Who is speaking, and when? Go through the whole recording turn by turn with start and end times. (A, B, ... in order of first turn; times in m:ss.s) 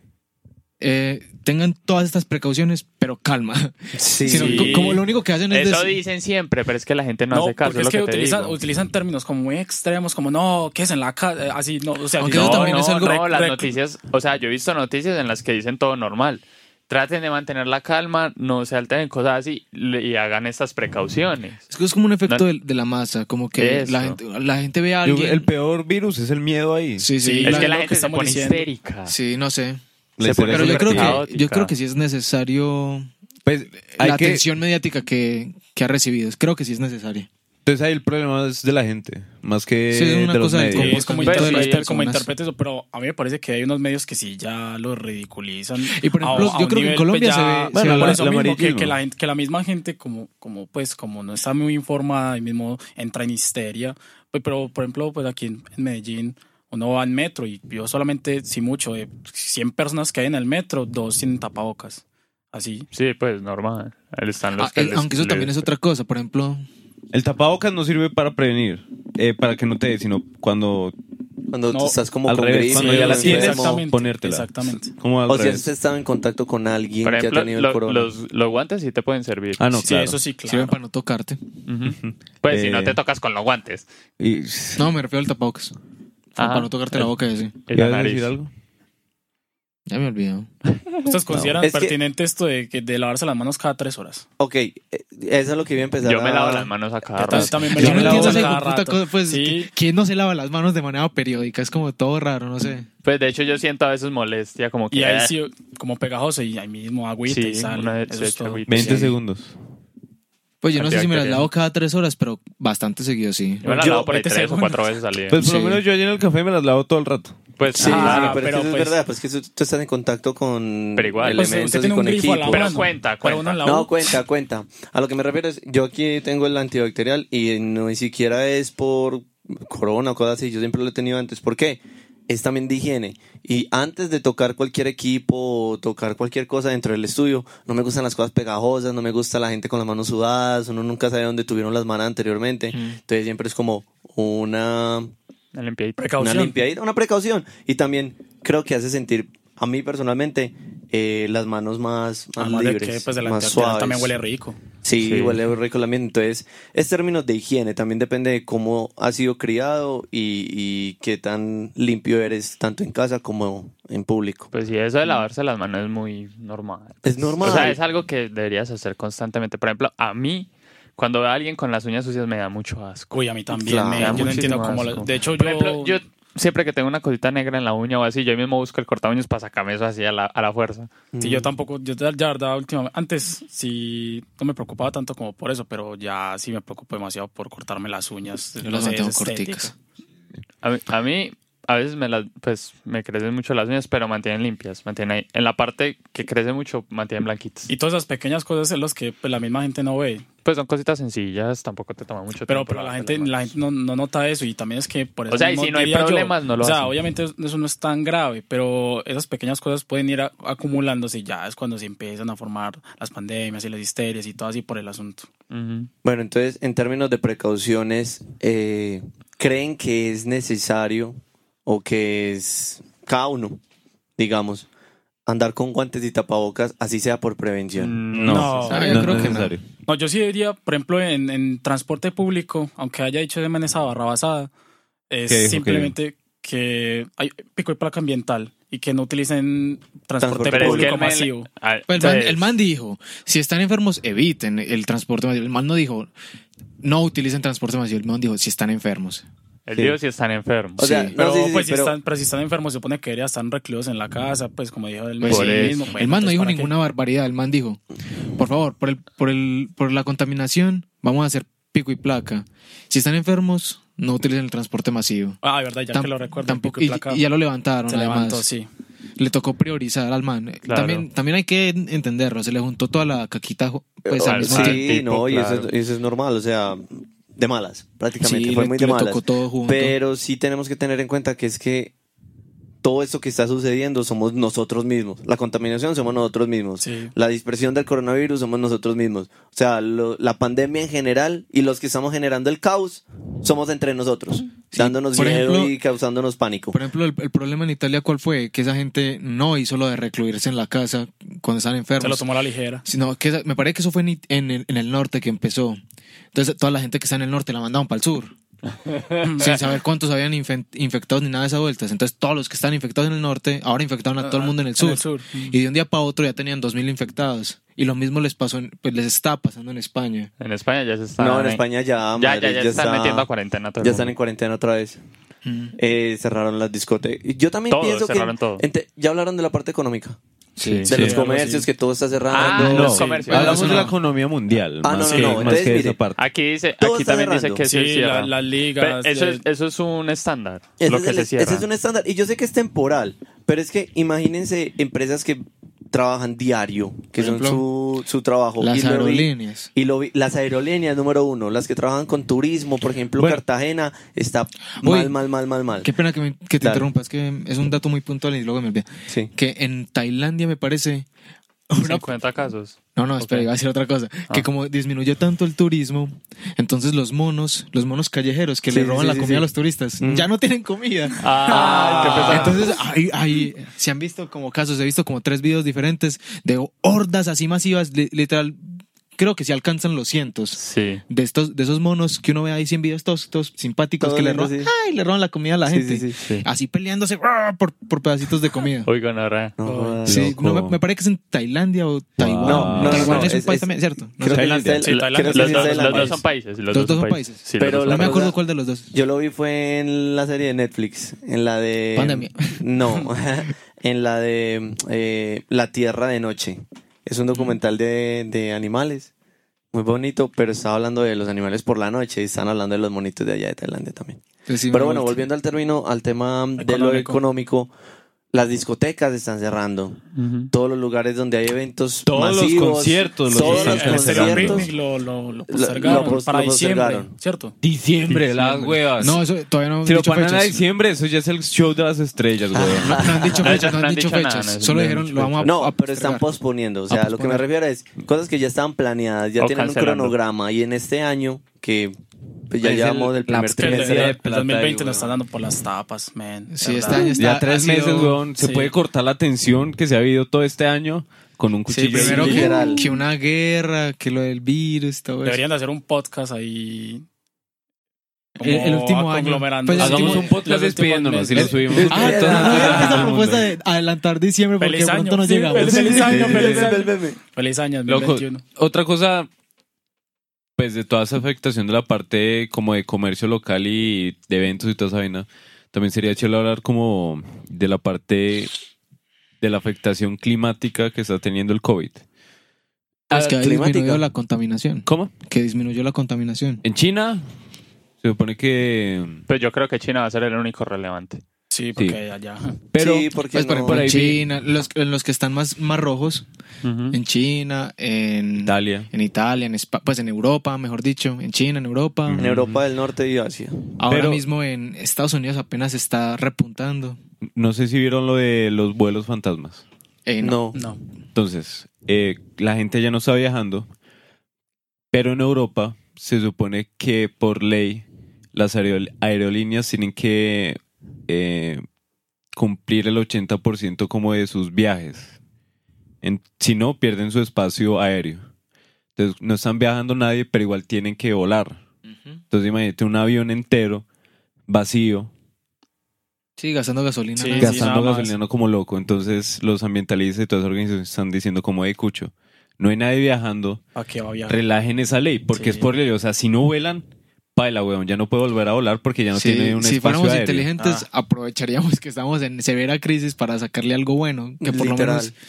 0:00.8-0:06.0 A
0:03.9-0:04.9 B
0:04.2-0:05.0 C
0:05.5-0:08.6 D
0:07.3-0:13.7 C
0:12.2-0:13.2 A
0:12.2-0:21.6 D
0:21.7-0:25.5 A
0:23.6-0:24.2 D
0:25.0-0:27.1 E
0:27.0-0:27.7 A
0:27.2-0:28.7 C
0:27.4-0:29.1 D
0:29.0-0:29.8 A
0:30.2-0:31.2 E
0:30.2-0:31.7 D
0:30.3-0:33.1 A
0:33.4-0:34.4 E
0:33.8-0:37.3 A
0:37.6-0:41.1 E
0:39.9-0:42.3 A
0:40.7-1:02.9 C
0:41.2-0:41.9 D
0:45.9-0:48.2 A
0:47.7-0:49.0 E
1:02.9-1:05.7 D
1:04.6-1:06.6 A
1:07.1-1:10.9 E
1:11.5-1:13.8 B
1:11.7-1:12.0 C
1:12.2-1:15.7 E
1:12.7-1:14.9 C
1:15.3-1:18.1 B
1:17.0-1:19.6 D
1:19.6-1:20.2 E
1:19.8-1:20.8 C
1:20.5-1:21.4 A
1:21.7-1:23.9 D
1:21.9-1:23.0 E
1:24.2-1:24.9 E
1:24.8-1:25.7 A
1:26.4-1:27.5 A
1:26.4-1:26.7 D
1:27.7-1:28.3 D
1:27.7-1:28.5 E
1:29.9-1:30.5 A
1:31.0-1:34.2 C
1:31.3-1:31.6 E
1:31.6-1:32.0 B
1:34.4-1:36.7 B
1:36.0-1:38.5 D
1:37.2-1:39.7 C
1:37.7-1:42.9 A
1:43.0-1:45.3 D
1:44.9-1:49.0 C
1:47.3-1:49.1 D
1:48.7-1:49.5 E
1:50.6-1:53.6 A
1:50.7-1:51.5 D
1:53.6-1:55.4 D
1:53.6-1:55.0 C
1:53.7-1:54.1 B
1:55.3-1:57.4 E
1:55.3-1:55.8 A
1:57.6-1:58.4 D
1:57.7-1:59.0 C
1:57.8-2:02.8 B
2:01.0-2:01.5 D
2:01.3-2:04.2 C
2:02.4-2:03.6 D
2:03.6-2:25.1 B
2:22.7-2:23.0 A
2:25.5-2:26.0 D
2:26.0-2:26.5 C
2:26.2-2:34.2 B
2:32.4-2:34.6 C
2:34.8-2:44.5 B
2:35.0-2:35.4 D
2:44.5-2:53.1 D
2:47.0-2:47.8 B
2:53.1-2:56.0 C
2:53.5-2:54.5 B
2:53.9-3:00.9 D
3:01.1-3:01.5 B
3:01.2-3:09.7 C
3:08.6-3:09.7 A
3:10.6-3:17.7 D
3:17.7-3:20.2 C
3:20.4-3:23.4 D
3:22.5-3:35.3 C
3:25.3-3:26.9 D
3:35.5-3:35.9 D
3:36.0-3:43.6 B
3:44.2-3:44.7 B
3:45.2-3:48.0 B
3:47.8-3:49.1 D
3:48.1-3:49.6 E
3:48.2-3:49.2 C
3:48.7-3:49.5 A
3:49.8-3:54.5 C
3:55.1-4:01.5 C
3:55.3-3:55.9 E
4:00.2-4:00.9 B
4:00.5-4:02.6 D
4:01.9-4:06.1 A
4:06.8-4:09.2 A
4:09.7-4:10.8 D
4:10.8-4:12.0 B
4:10.8-4:11.1 A
4:11.1-4:16.7 C
4:15.2-4:17.8 A
4:15.2-4:15.9 D
4:18.3-4:25.4 A
4:25.4-4:27.2 C
4:25.9-4:28.4 A
4:27.9-4:28.7 C
4:29.2-4:34.9 A
4:30.6-4:31.0 D
4:34.1-4:41.9 B
4:34.2-4:35.7 D
4:38.2-4:40.0 A
4:42.8-4:56.8 B
4:46.8-4:47.1 C
4:54.7-4:55.7 A
4:56.7-5:02.3 A
5:02.0-5:02.8 C
5:02.8-5:05.8 A
5:06.3-5:08.3 A
5:09.2-5:09.7 C
5:09.4-5:20.3 A
5:14.2-5:15.6 C
5:20.4-5:21.6 D
5:21.2-5:23.3 B
5:22.2-5:24.1 D
5:23.8-5:25.0 B
5:25.4-5:25.7 A
5:25.8-5:30.2 B
5:27.7-5:28.6 D
5:30.6-5:30.9 A
5:30.6-5:30.9 D
5:30.9-5:31.7 C
5:30.9-5:33.8 B
5:32.3-5:33.9 D
5:32.4-5:36.2 E
5:33.0-5:33.9 C
5:33.3-5:33.9 A
5:34.8-5:36.0 B
5:35.1-5:35.5 C
5:36.2-5:41.6 D
5:36.8-5:37.6 B
5:37.6-5:39.4 C
5:40.8-5:55.9 B
5:47.2-5:47.6 A
5:48.6-5:49.7 A
5:54.8-5:55.1 A
5:55.8-6:01.0 A
5:56.6-5:56.9 B
6:01.7-6:02.1 A
6:01.8-6:03.4 D
6:02.9-6:28.9 A
6:08.7-6:09.4 B
6:10.0-6:10.3 B
6:11.2-6:12.6 D
6:11.6-6:12.4 C
6:20.5-6:21.0 D
6:24.0-6:24.7 B
6:25.7-6:26.2 B
6:26.2-6:26.4 D
6:28.8-6:29.5 D
6:29.6-6:30.3 B
6:29.6-6:30.0 C
6:30.0-6:30.8 E
6:30.0-6:34.8 A
6:32.2-6:33.4 E
6:32.4-6:36.2 B
6:34.3-6:34.8 E
6:34.8-6:36.2 C
6:34.9-6:38.2 D
6:36.7-6:38.9 A
6:37.6-6:38.4 B
6:38.9-6:49.1 B
6:41.9-6:42.8 A
6:49.7-6:57.7 B
6:54.5-6:55.2 A
6:56.6-6:57.2 C
6:58.3-7:00.0 B
7:00.1-7:00.5 D
7:00.5-7:04.7 B
7:02.0-7:04.7 E
7:03.3-7:07.5 C
7:05.5-7:07.1 B
7:07.6-7:09.2 E
7:08.1-7:08.7 D
7:09.0-7:10.6 A
7:09.8-7:13.2 E
7:12.5-7:13.7 B
7:12.7-7:16.3 A
7:13.4-7:15.5 D
7:15.4-7:21.9 B
7:16.9-7:17.4 A
7:19.4-7:20.2 D
7:22.5-7:24.2 B
7:22.6-7:25.1 E
7:23.5-7:27.2 C
7:26.5-7:28.2 A
7:27.2-7:32.7 E
7:28.4-7:28.7 C
7:31.7-7:35.4 A
7:31.9-7:32.9 B
7:35.2-7:37.0 C
7:38.4-7:43.0 C
7:38.4-7:40.4 A
7:39.8-7:43.5 E
7:41.4-7:46.4 A
7:41.7-7:43.2 B
7:44.6-7:48.4 C
7:45.7-7:47.2 B
7:45.9-7:46.7 E
7:47.9-7:49.3 E
7:50.6-7:58.5 E
7:59.4-8:02.0 E
8:03.1-8:04.0 B
8:03.1-8:06.6 A
8:04.8-8:05.1 E
8:06.6-8:07.2 E
8:08.0-8:09.2 E
8:09.3-8:11.2 D
8:11.5-8:12.6 C
8:12.7-8:14.2 E
8:12.8-8:13.9 B
8:13.3-8:16.2 A
8:16.6-8:17.0 D
8:16.9-8:22.3 A
8:18.4-8:18.9 E
8:22.0-8:22.6 E
8:22.2-8:23.7 B
8:23.8-8:27.0 A
8:23.9-8:24.2 E
8:27.4-8:29.6 E
8:30.0-8:30.4 A
8:30.2-8:30.6 B
8:30.5-8:30.8 C
8:31.1-8:33.7 E
8:34.9-8:41.6 E
8:42.3-8:45.1 E
8:46.0-8:48.3 E
8:49.0-8:51.6 E
8:51.9-8:52.2 A
8:52.3-8:53.8 E
8:54.5-8:55.1 E
8:56.4-8:57.7 A
8:57.2-8:58.1 C
8:57.4-9:03.6 E
9:03.7-9:04.4 C
9:04.3-9:10.5 E
9:05.3-9:05.7 C
9:09.1-9:15.1 A
9:10.6-9:10.8 C
9:14.4-9:15.1 B